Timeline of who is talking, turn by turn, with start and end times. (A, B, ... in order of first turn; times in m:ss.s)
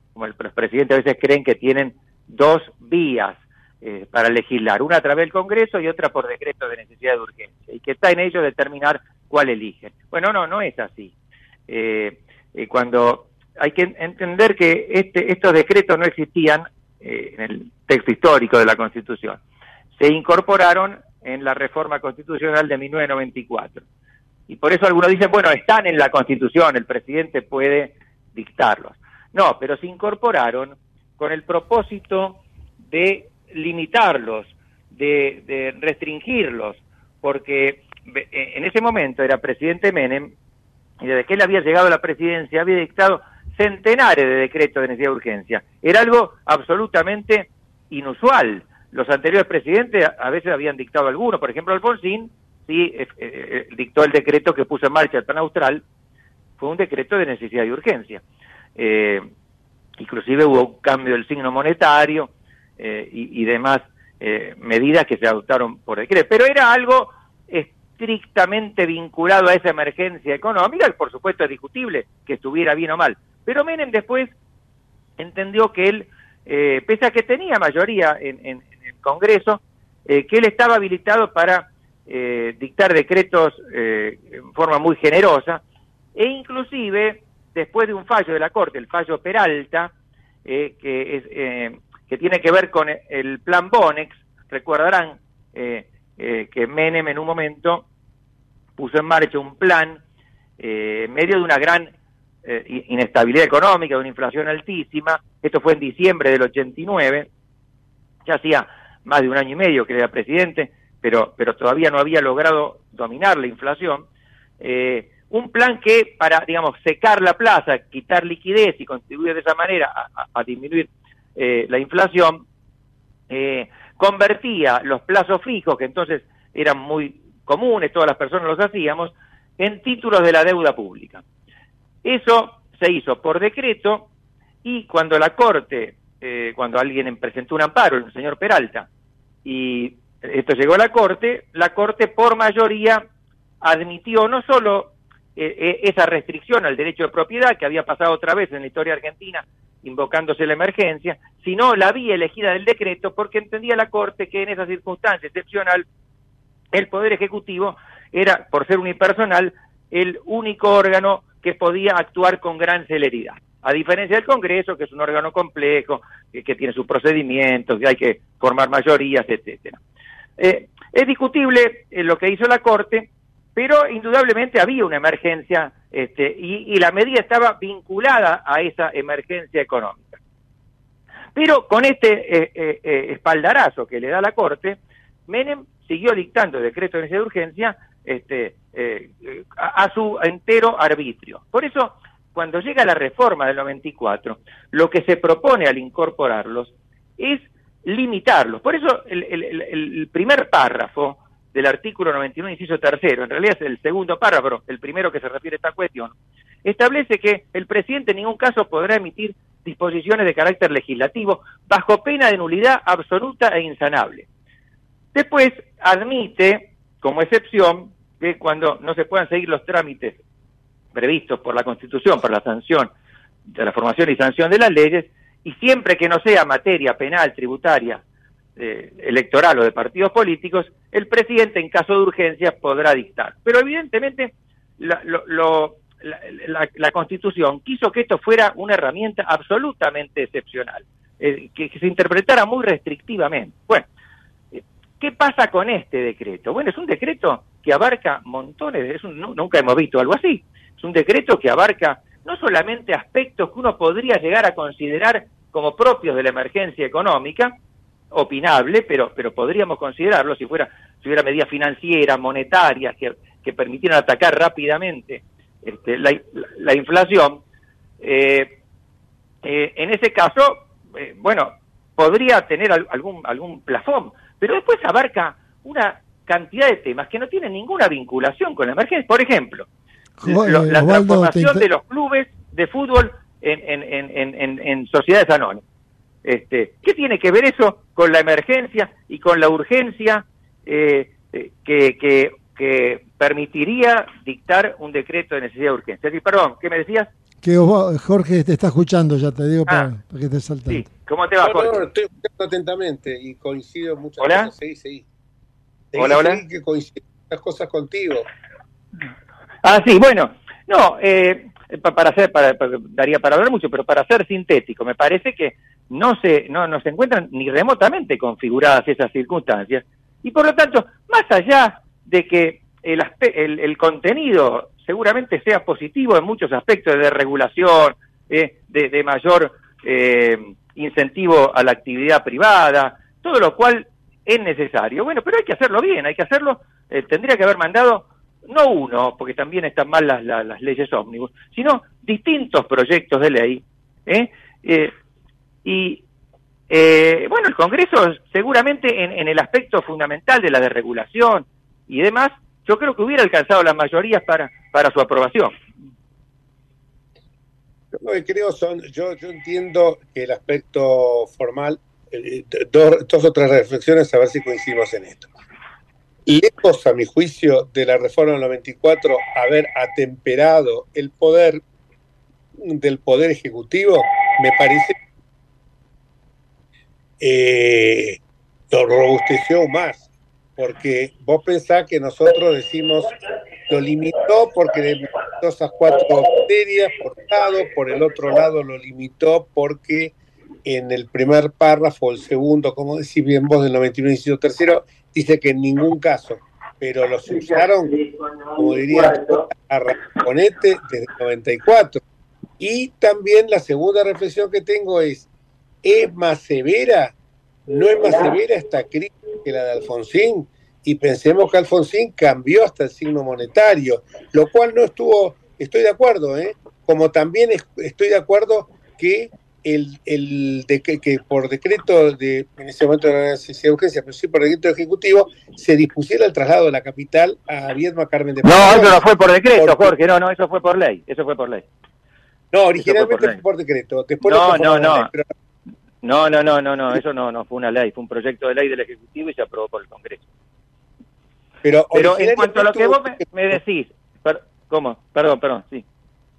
0:00.1-0:11.1 A
0:11.7-0:19.4 A
0:20.0-0:23.8 A
0:24.5-0:40.3 A
0:41.0-0:55.8 A
0:56.6-0:58.2 A
0:58.8-0:59.3 A
1:00.0-1:14.3 A
1:15.2-1:25.6 A
1:26.1-1:29.9 A
1:30.4-1:37.8 A
1:38.8-1:40.0 A
1:40.6-1:41.9 A
1:42.4-1:47.3 A
1:48.2-1:54.0 A
1:54.6-2:02.4 A
2:03.3-2:11.2 A
2:12.0-2:14.1 A
2:14.6-2:18.9 A
2:19.4-2:23.0 A
2:23.6-2:35.8 A
2:36.7-2:49.8 A
2:50.4-3:00.2 A
3:01.3-3:26.1 A
3:26.6-3:34.2 A
3:35.1-3:40.2 A
3:40.9-3:42.9 A
3:43.5-3:48.0 A
3:48.6-4:03.9 A
4:04.5-4:17.6 A
4:18.1-4:27.4 A
4:28.0-4:28.6 A
4:29.4-4:39.6 A
4:40.2-4:41.6 B
4:40.2-4:45.6 A
4:46.2-4:57.1 A
4:57.4-5:00.9 B
5:00.7-5:01.8 A
5:01.4-5:05.0 C
5:04.2-5:04.5 A
5:05.9-5:08.3 C
5:05.9-5:06.4 A
5:09.6-5:44.9 A
5:45.6-5:46.0 A
5:46.7-5:55.6 A
5:58.0-6:05.3 C
6:06.3-6:11.6 C
6:12.6-6:15.0 C
6:17.2-6:18.2 C
6:18.7-6:23.1 C
6:23.7-6:37.9 C
6:37.3-6:39.4 A
6:38.5-6:42.0 C
6:42.6-6:45.3 C
6:45.8-6:47.2 C
6:47.7-7:09.9 C
7:08.4-7:11.6 A
7:12.5-7:15.3 C
7:12.8-7:13.4 A
7:14.2-7:15.1 A
7:16.0-7:20.2 A
7:21.6-7:23.6 C
7:21.9-7:25.8 A